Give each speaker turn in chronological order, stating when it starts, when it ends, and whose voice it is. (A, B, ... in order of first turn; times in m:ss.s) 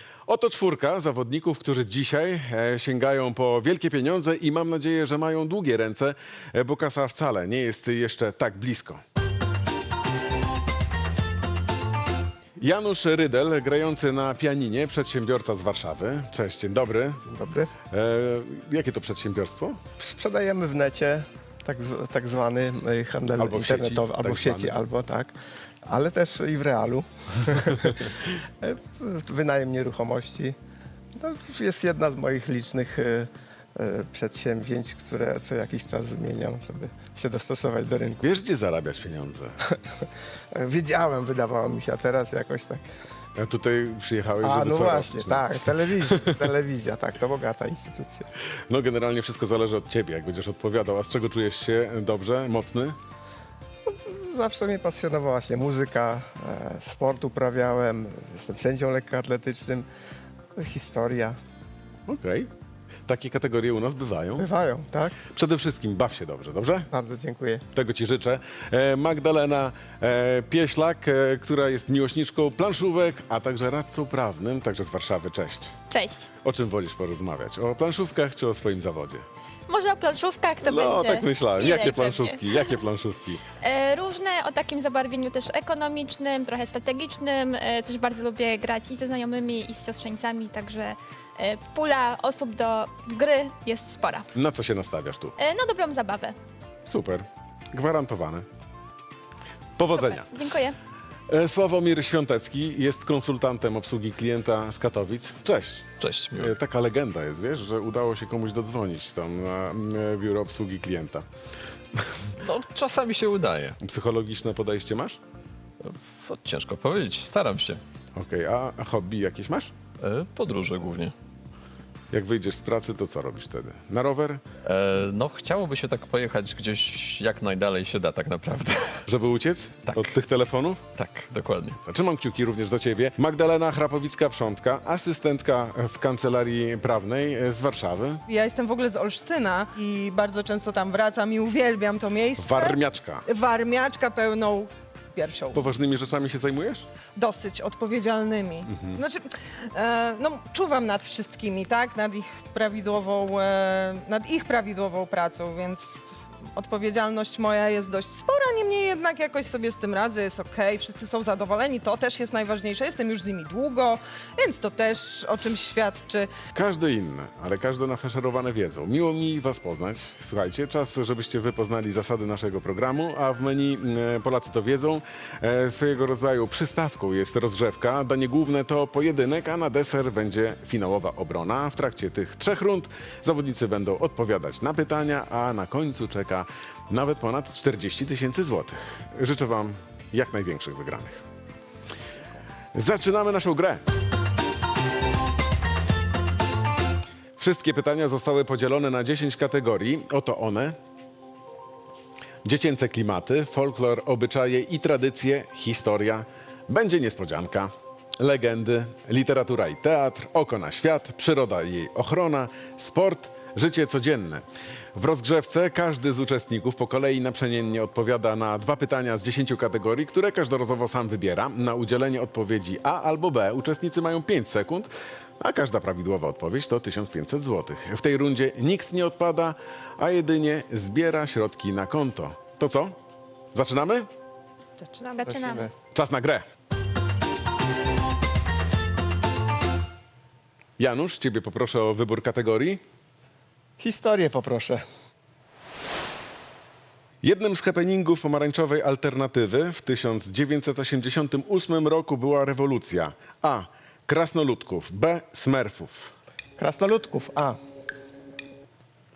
0:00.3-0:09.0 A
0:12.6-0:17.2 A
0:17.3-0:17.7 B
0:17.9-0:19.8 A
0:20.0-0:30.6 B
0:23.4-0:24.8 A
0:31.1-0:38.2 B
0:38.2-0:39.6 A
0:39.7-0:42.8 B
0:43.4-0:46.4 A
0:44.4-0:48.3 B
0:48.7-0:53.0 A
0:53.8-0:59.9 B
1:00.6-1:01.4 B
1:02.1-1:02.5 A
1:03.1-1:04.5 A
1:04.4-1:05.2 B
1:05.2-1:06.9 A
1:06.9-1:07.6 B
1:07.7-1:15.8 A
1:15.9-1:16.3 C
1:16.4-1:19.2 A
1:19.7-1:22.8 C
1:20.6-1:23.4 A
1:23.5-1:34.3 C
1:34.3-1:35.3 A
1:35.4-1:36.4 C
1:36.9-1:38.4 A
1:39.8-1:40.3 A
1:39.9-1:40.8 C
1:41.3-1:51.2 A
1:46.0-1:46.5 D
1:51.9-1:52.3 A
1:52.4-1:53.8 D
1:53.8-1:55.2 A
1:55.8-1:57.8 D
1:58.2-1:59.7 A
2:00.0-2:01.1 D
2:02.1-2:04.4 A
2:04.6-2:09.0 D
2:09.0-2:10.8 A
2:09.9-2:10.1 D
2:10.9-2:11.8 D
2:11.8-2:18.2 A
2:18.3-2:25.6 E
2:22.4-2:23.2 A
2:25.5-2:26.9 A
2:27.2-2:46.3 E
2:28.7-2:29.0 A
2:46.5-3:11.2 A
3:12.7-3:13.8 A
3:17.4-3:20.8 A
3:22.4-3:53.0 A
3:53.5-3:54.1 A
3:54.8-3:55.6 E
3:55.2-3:55.7 C
3:55.3-3:55.7 B
3:55.9-3:56.4 A
4:00.8-4:02.8 A
4:03.8-4:04.8 B
4:07.2-4:16.1 A
4:16.6-4:17.6 B